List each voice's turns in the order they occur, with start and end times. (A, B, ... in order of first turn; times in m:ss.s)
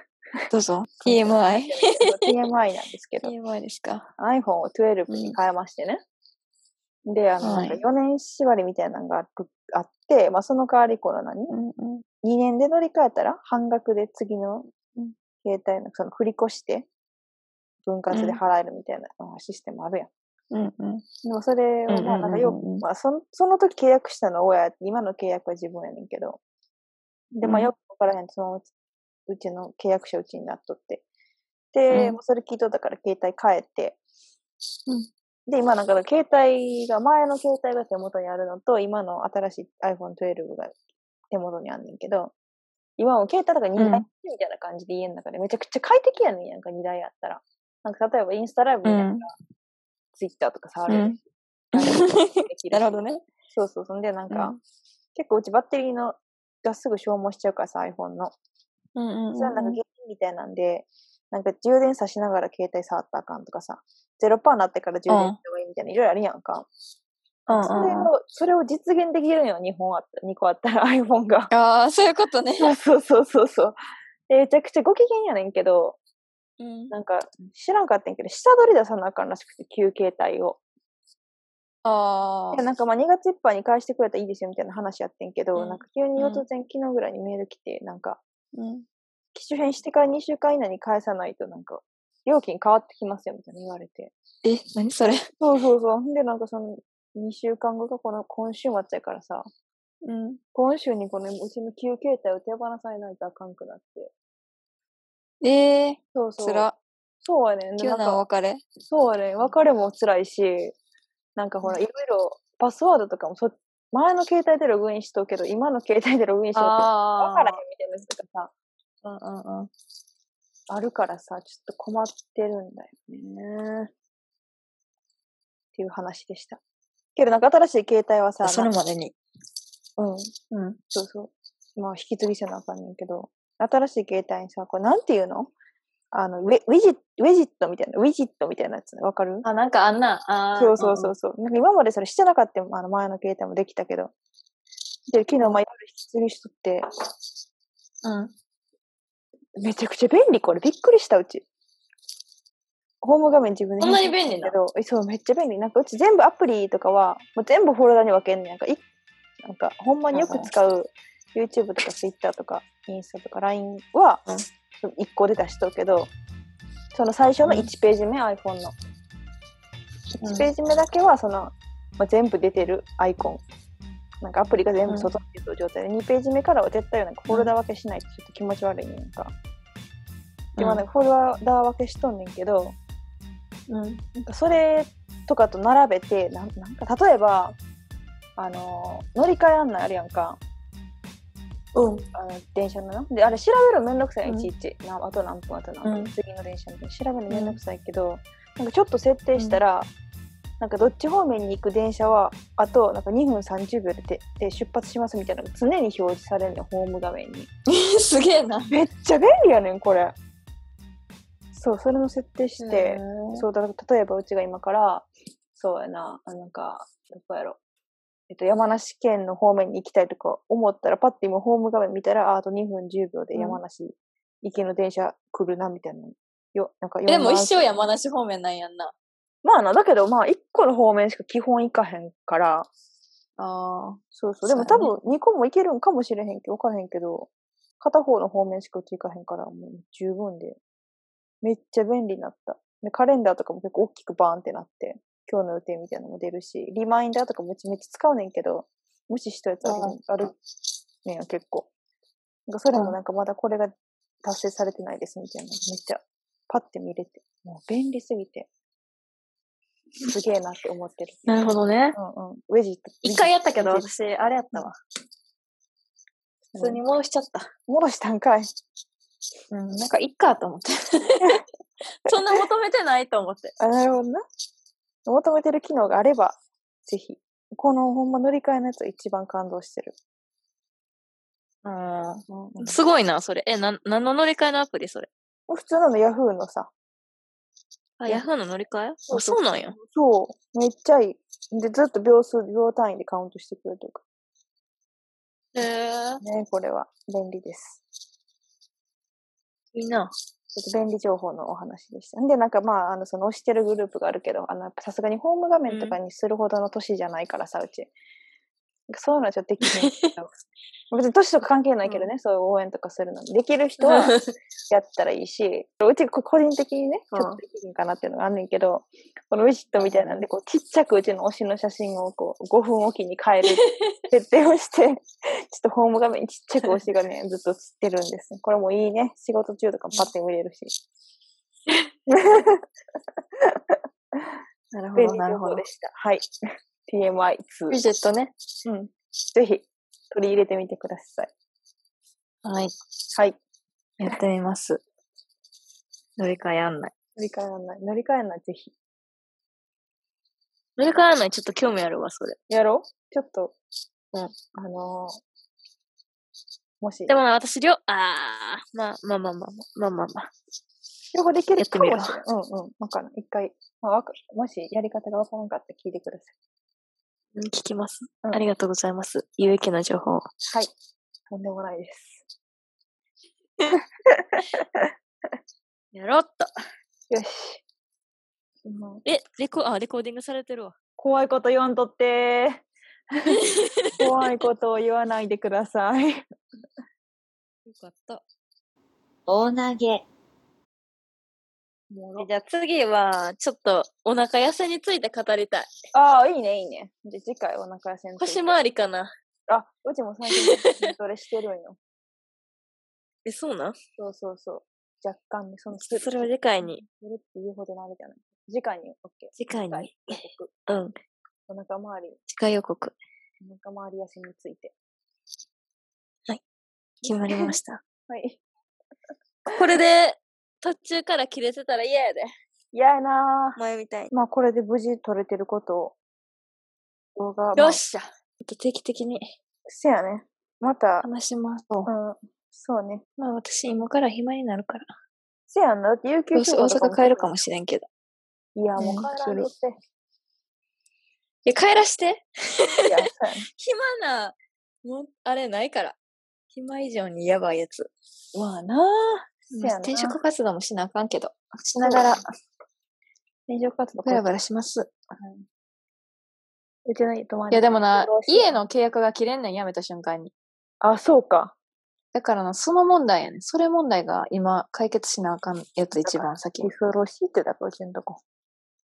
0:00.5-0:02.4 A
0:01.0-0:03.3 B
0:03.2-0:04.1 A
0:04.2-0:06.0 B
0:05.1-0:05.4 A
0:07.1-0:11.5 B
0:07.4-0:07.8 A
0:11.5-0:12.0 A
0:12.2-0:16.9 B
0:17.9-0:20.1 B
0:18.1-0:18.4 A
0:20.5-0:21.0 A
0:21.2-0:26.4 B
0:21.9-0:22.8 A
0:27.4-0:28.7 B
0:27.4-0:27.7 A
0:29.3-0:31.0 B
0:31.7-0:34.0 B
0:31.9-0:32.2 A
0:35.5-0:40.8 B
0:41.3-0:42.3 B
0:43.0-0:49.3 B
0:43.8-0:44.0 A
0:48.8-0:49.2 A
0:50.1-0:51.2 B
0:50.9-0:51.2 A
0:51.7-0:54.6 B
0:51.8-0:53.2 A
0:54.3-0:54.6 A
0:55.2-0:58.3 B
0:59.0-0:59.8 A
0:59.4-1:06.7 B
1:05.1-1:05.4 A
1:07.5-1:08.1 A
1:07.5-1:11.5 B
1:11.5-1:12.7 A
1:12.6-1:13.8 B
1:14.3-1:16.0 B
1:16.6-1:16.9 A
1:16.9-1:20.6 B
1:21.8-1:22.6 A
1:22.5-1:28.2 B
1:25.6-1:26.5 A
1:28.6-1:28.8 A
1:29.3-1:34.1 B
1:34.4-1:35.2 A
1:35.4-1:39.5 B
1:40.0-1:40.4 A
1:40.5-1:44.1 B
1:45.4-1:46.8 A
1:46.1-1:46.7 B
1:47.2-1:48.2 B
1:47.8-1:48.6 A
1:48.8-1:50.8 B
1:51.4-1:58.5 B
1:56.6-1:57.6 A
1:59.0-1:59.7 A
2:00.7-2:03.9 B
2:05.7-2:06.6 B
2:07.2-2:08.7 B
2:08.4-2:09.2 A
2:10.0-2:10.3 B
2:10.5-2:10.8 A
2:10.9-2:15.5 B
2:16.1-2:19.4 B
2:19.4-2:21.1 A
2:20.6-2:24.1 B
2:25.1-2:26.9 B
2:28.0-2:28.3 A
2:29.6-2:31.5 B
2:33.0-2:38.8 B
2:33.8-2:34.5 A
2:39.4-2:44.3 B
2:40.1-2:40.5 A
2:44.8-2:46.1 B
2:46.9-2:48.8 B
2:47.4-2:47.7 A
2:50.2-2:50.5 A
2:50.3-2:53.4 B
2:54.2-2:59.3 B
3:00.6-3:00.8 A
3:00.6-3:02.8 B
3:03.7-3:04.0 A
3:04.2-3:07.6 B
3:08.4-3:10.4 B
3:11.8-3:12.1 A
3:12.1-3:19.9 B
3:14.2-3:14.5 A
3:15.8-3:16.1 A
3:17.3-3:17.6 A
3:19.4-3:19.6 A
3:20.6-3:27.5 B
3:27.7-3:28.7 A
3:28.7-3:30.2 B
3:31.5-3:37.6 B
3:32.6-3:33.4 A
3:38.3-3:47.8 B
3:43.3-3:43.6 A
3:47.1-3:48.9 A
3:49.4-3:52.7 B
3:53.4-3:54.9 A
3:54.1-4:00.6 B
4:01.4-4:10.4 B
4:09.6-4:10.0 A
4:11.0-4:11.7 B
4:12.5-4:18.5 B
4:20.0-4:21.3 B
4:21.3-4:22.0 A
4:22.0-4:23.9 B
4:23.0-4:24.8 A
4:26.6-4:26.8 B
4:26.6-4:27.5 A
4:27.7-4:28.5 B
4:29.5-4:31.4 A
4:32.0-4:33.5 A
4:32.1-4:32.4 B
4:33.6-4:34.2 B
4:35.1-4:40.0 B
4:41.6-4:45.1 A
4:42.3-4:42.8 B
4:45.5-4:46.7 B
4:48.0-4:49.8 A
4:49.1-4:54.0 B
4:55.6-4:56.2 A
4:56.2-4:57.8 B
4:59.7-5:00.1 A
5:00.6-5:07.9 B
5:05.7-5:06.0 A
5:08.9-5:10.3 B
5:09.7-5:10.1 A
5:10.9-5:14.2 B
5:13.8-5:14.3 A
5:14.7-5:30.8 B
5:17.1-5:17.4 A
5:19.8-5:20.2 A
5:23.6-5:24.0 A
5:32.1-5:32.6 B
5:33.4-5:33.8 B
5:34.7-5:35.6 A
5:35.0-5:36.3 B
5:36.9-5:37.8 B
5:37.7-5:38.3 A
5:38.6-5:41.3 B
5:42.4-5:42.7 A
5:43.1-5:43.4 B
5:44.0-5:44.8 A
5:46.2-5:46.9 A
5:47.2-5:48.7 B
5:50.8-5:52.4 A
5:52.5-5:53.6 B
5:54.6-5:55.2 B
5:56.8-5:57.2 B
5:57.1-6:00.3 A
6:01.1-6:06.3 B
6:01.6-6:02.2 A
6:07.4-6:10.3 A
6:11.3-6:12.2 B
6:14.1-6:14.9 B
6:15.9-6:16.5 A
6:17.1-6:17.6 B
6:18.6-6:19.0 B
6:19.0-6:20.8 A
6:21.0-6:22.6 B
6:23.4-6:24.0 A
6:23.9-6:26.2 B
6:27.7-6:28.2 A
6:29.3-6:30.0 A
6:31.9-6:32.3 B
6:32.2-6:35.7 A
6:35.9-6:38.6 B
6:38.2-6:39.1 A
6:39.5-6:41.8 B
6:40.3-6:40.9 A
6:43.2-6:43.8 A
6:44.0-6:50.5 B
6:45.8-6:46.8 A
6:49.4-6:51.0 A
6:51.5-6:52.2 B
6:52.3-6:53.0 A
6:53.4-6:54.7 B
6:57.0-6:57.5 B
6:57.0-6:57.8 A
6:58.1-6:58.4 B
6:59.5-7:02.3 A
7:02.7-7:03.6 B
7:03.6-7:04.1 A
7:04.1-7:06.0 B
7:07.2-7:07.8 B
7:07.6-7:09.3 A
7:09.7-7:11.1 B
7:11.0-7:11.9 A
7:11.9-7:13.0 B
7:13.2-7:14.9 A
7:15.5-7:17.4 B
7:16.3-7:17.9 A
7:18.6-7:19.8 B
7:18.8-7:19.5 A
7:21.4-7:23.0 A
7:22.8-7:23.5 B
7:23.6-7:26.0 A
7:26.5-7:27.9 A
7:28.3-7:30.2 B
7:29.5-7:32.2 A
7:31.8-7:32.1 B
7:33.5-7:34.3 B
7:34.0-7:34.9 A
7:35.2-7:35.4 B
7:36.9-7:38.6 B
7:37.5-7:40.3 A
7:40.8-7:41.6 B
7:42.1-7:46.7 A
7:46.0-7:48.2 B